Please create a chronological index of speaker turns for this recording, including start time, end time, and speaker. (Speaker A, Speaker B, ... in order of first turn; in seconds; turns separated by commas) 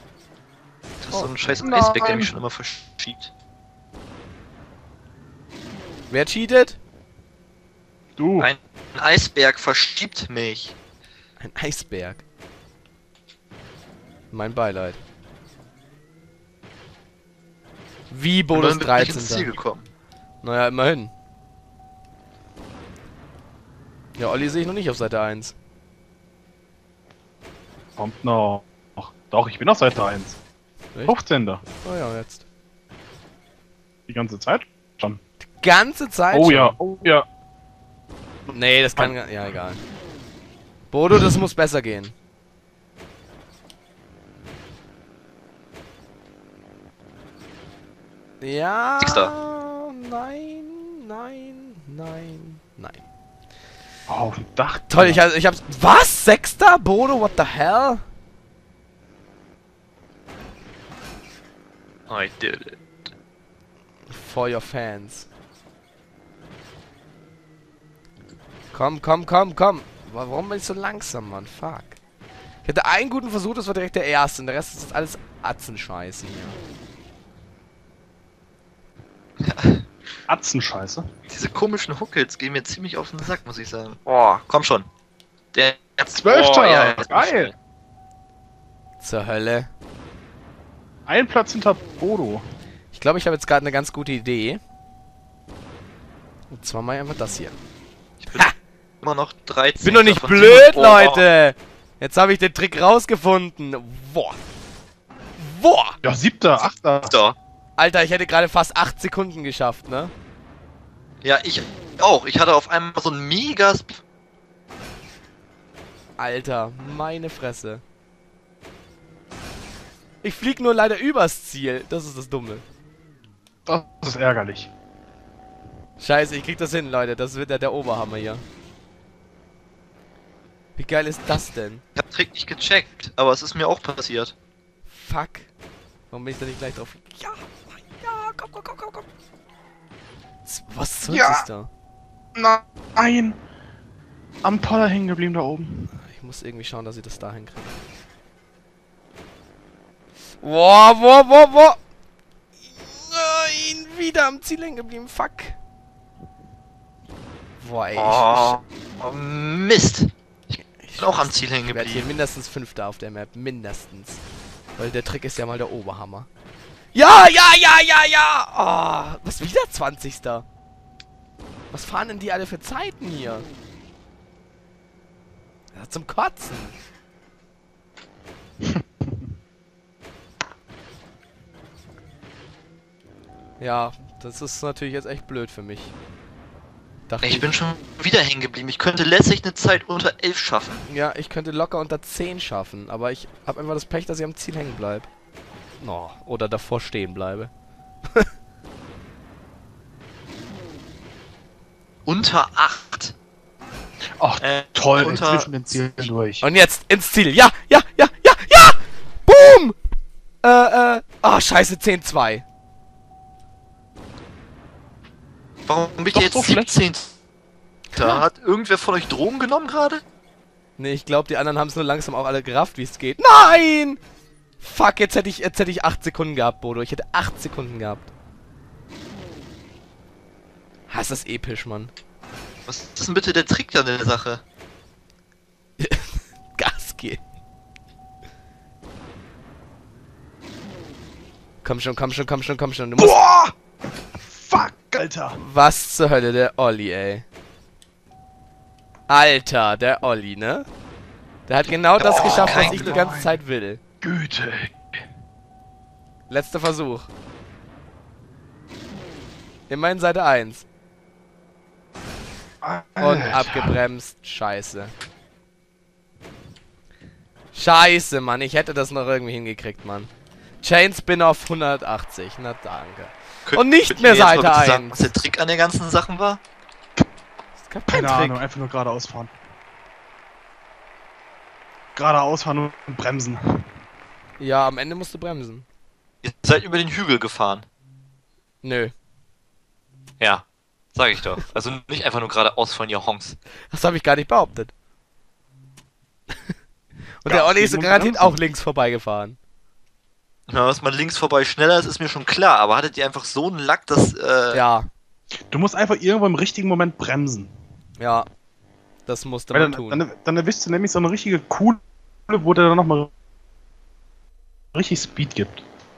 Speaker A: 1.0-3.3, Speaker B: 1.1-1.7, Speaker C: 1.6-2.3, Speaker B: 6.1-6.8, Speaker C: 8.2-8.5, Speaker A: 8.4-10.8, Speaker B: 11.4-12.2, Speaker B: 14.3-15.0, Speaker B: 18.1-19.6, Speaker A: 18.5-19.9, Speaker B: 20.4-21.1, Speaker B: 24.2-25.6, Speaker C: 28.0-30.4, Speaker C: 31.1-31.6, Speaker B: 31.8-32.4, Speaker C: 34.1-35.2, Speaker B: 35.5-36.8, Speaker C: 36.3-37.2, Speaker B: 38.5-39.8, Speaker B: 40.9-42.1, Speaker B: 48.4-53.0, Speaker A: 49.0-49.3, Speaker C: 54.1-55.2, Speaker B: 54.9-58.0, Speaker A: 62.1-62.8, Speaker B: 64.1-65.3, Speaker B: 68.7-72.0, Speaker B: 72.7-76.6, Speaker A: 79.4-79.9, Speaker C: 80.3-81.0, Speaker A: 81.3-84.9, Speaker A: 85.5-87.5, Speaker C: 86.1-87.5, Speaker B: 89.0-89.7, Speaker C: 91.1-92.4, Speaker B: 92.9-94.6, Speaker B: 96.5-97.5, Speaker A: 98.2-101.3, Speaker B: 99.8-104.4, Speaker B: 105.4-106.0, Speaker C: 106.0-107.2, Speaker A: 107.1-107.4, Speaker B: 107.8-110.1, Speaker A: 111.2-114.0, Speaker B: 116.2-117.8, Speaker B: 120.2-122.6, Speaker C: 123.7-124.7, Speaker B: 126.0-128.4, Speaker B: 130.8-131.8, Speaker A: 131.9-134.3, Speaker B: 134.9-135.5, Speaker B: 136.1-139.1, Speaker B: 140.5-141.7, Speaker C: 141.1-141.4, Speaker C: 142.4-143.4, Speaker C: 144.4-145.9, Speaker B: 145.9-147.8, Speaker B: 150.4-151.8, Speaker B: 152.8-155.6, Speaker B: 157.6-158.6, Speaker A: 158.0-160.1, Speaker B: 160.8-164.2, Speaker A: 161.0-162.1, Speaker B: 164.8-166.3, Speaker B: 166.9-170.4, Speaker B: 171.7-173.5, Speaker B: 175.7-176.8, Speaker B: 183.6-185.9, Speaker B: 187.1-187.5, Speaker A: 187.2-190.8, Speaker B: 190.9-195.1, Speaker B: 195.8-197.5, Speaker A: 202.1-203.2, Speaker C: 204.2-206.4, Speaker A: 204.4-205.5, Speaker B: 206.4-209.8, Speaker B: 210.4-212.4, Speaker A: 215.7-217.1, Speaker C: 216.1-216.8, Speaker B: 217.9-218.2, Speaker A: 217.9-220.0, Speaker B: 220.8-224.0, Speaker B: 224.6-228.1, Speaker B: 230.9-231.9, Speaker A: 232.7-234.4, Speaker B: 235.8-237.2, Speaker B: 241.6-243.2, Speaker C: 243.0-243.5, Speaker C: 244.2-245.4, Speaker B: 245.4-247.2, Speaker B: 249.1-250.7, Speaker B: 251.5-253.8, Speaker C: 252.0-253.4, Speaker A: 252.0-253.0, Speaker C: 254.0-254.8, Speaker B: 256.3-257.1, Speaker B: 259.7-260.6, Speaker C: 262.6-263.8, Speaker B: 263.0-264.9, Speaker B: 267.5-270.1, Speaker B: 270.6-275.1, Speaker A: 273.4-276.4, Speaker B: 277.6-278.4, Speaker C: 277.9-279.4, Speaker C: 282.0-283.4, Speaker B: 284.4-285.7, Speaker A: 286.2-287.7, Speaker B: 288.6-288.9, Speaker A: 290.2-293.4, Speaker B: 293.7-294.7, Speaker B: 297.2-299.4, Speaker C: 297.3-298.4, Speaker A: 300.5-304.6, Speaker B: 304.5-304.9, Speaker C: 305.5-307.5, Speaker B: 308.0-308.3, Speaker B: 309.1-310.0, Speaker C: 309.5-313.1, Speaker C: 314.8-315.6